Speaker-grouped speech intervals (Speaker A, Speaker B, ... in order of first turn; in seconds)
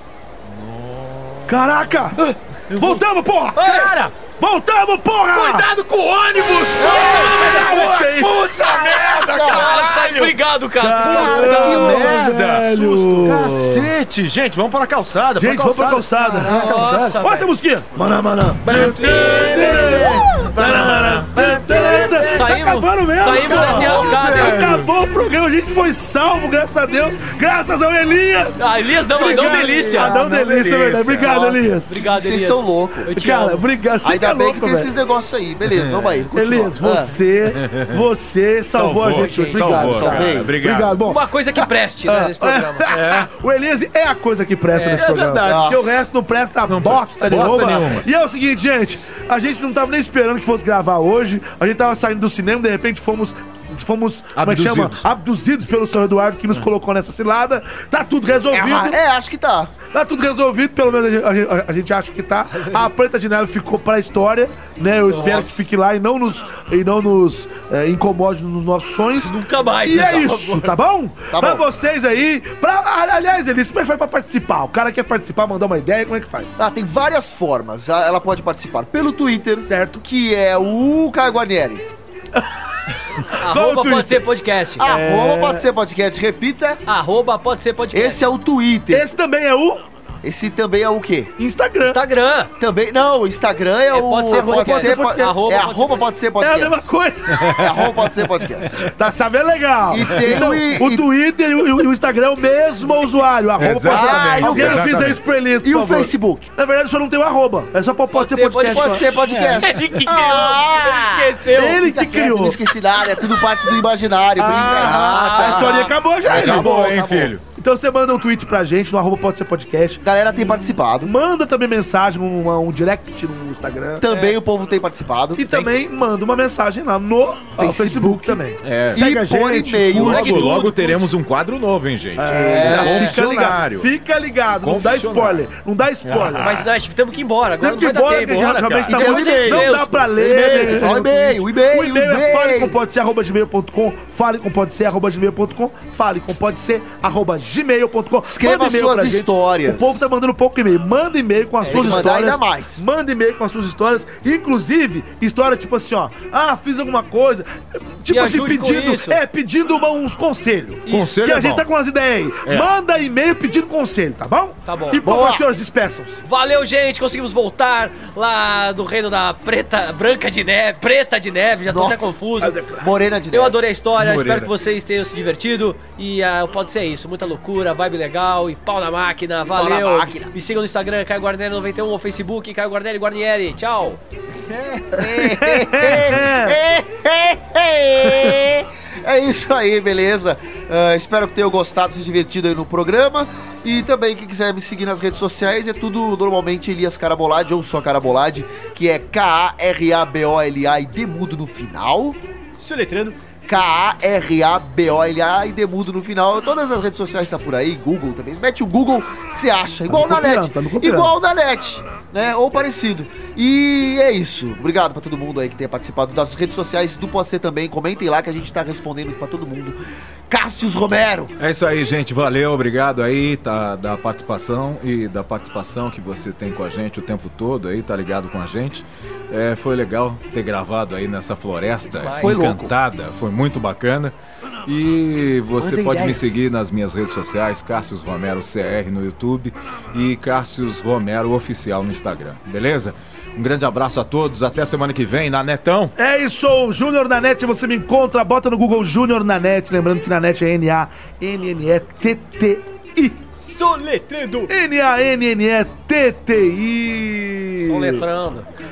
Speaker A: 0.4-3.0, 3.5-4.2, 5.3-10.4, 11.0-16.1, 18.6-22.6, 23.3-24.9, 29.3-31.3, 35.7-36.3, 37.5-37.9, 38.7-41.0, 42.9-43.3, 44.9-45.6, 46.7-48.0, 54.3-55.1, 100.1-100.5, 103.5-105.2, 109.2-110.0, 114.4-117.4, 128.6-129.1, 129.9-133.9, 134.6-135.4, 136.0-136.7, 138.2-139.6, 160.9-161.6, 173.9-174.5, 221.4-234.1, 234.7-245.9
Speaker B: 1.5-2.2, 2.7-5.7, 7.1-8.5, 10.8-13.9, 15.3-32.0, 33.1-34.9, 36.3-41.2, 42.0-59.0, 59.8-76.6, 79.7-80.0, 83.3-84.2, 84.8-85.7, 88.9-89.8, 91.4-92.0, 94.3-95.3, 96.4-97.6, 98.8-109.1, 111.5-112.6, 114.4-120.0, 121.0-124.0, 125.3-130.7, 132.2-136.6, 137.6-166.2, 172.4-172.9, 185.0-186.6, 209.9-211.1, 246.0-253.2, 254.5-258.0
Speaker C: 3.6-3.9, 9.4-12.2, 16.4-17.5, 18.8-20.1, 22.2-24.7, 28.6-30.1, 31.9-33.6, 39.1-40.2, 41.0-42.9, 44.7-45.0, 65.1-65.6, 69.2-70.7, 83.4-84.8, 86.8-88.2, 91.8-92.5, 93.9-96.0, 108.1-111.9, 115.0-115.9, 124.0-124.4, 130.0-131.1, 132.3-133.1, 136.4-140.9, 151.6-152.1, 158.1-159.2, 160.9-161.1, 164.7-165.0, 166.2-172.6, 173.3-184.0, 202.6-203.2, 232.0-232.3, 253.4-254.5, 257.6-258.5
Speaker D: 6.8-7.5, 8.5-9.7, 11.2-12.2, 16.2-16.8, 31.2-31.6, 32.1-33.1, 34.0-37.1, 39.8-40.5, 45.4-46.1, 58.5-59.8, 71.3-71.6, 76.6-81.8, 84.8-86.8, 87.9-89.1, 90.2-91.3, 92.6-96.9, 97.5-98.9, 99.9-101.1, 103.9-106.5, 108.7-117.3, 120.0-121.1, 124.0-125.8, 127.6-130.4, 132.3-133.2, 138.9-142.7, 148.2-150.0, 151.7-152.8, 165.0-165.5, 171.7-172.2, 172.8-173.6, 179.5-180.3, 184.5-202.2, 203.5-219.8, 220.3-221.3, 232.2-232.7, 235.6-236.3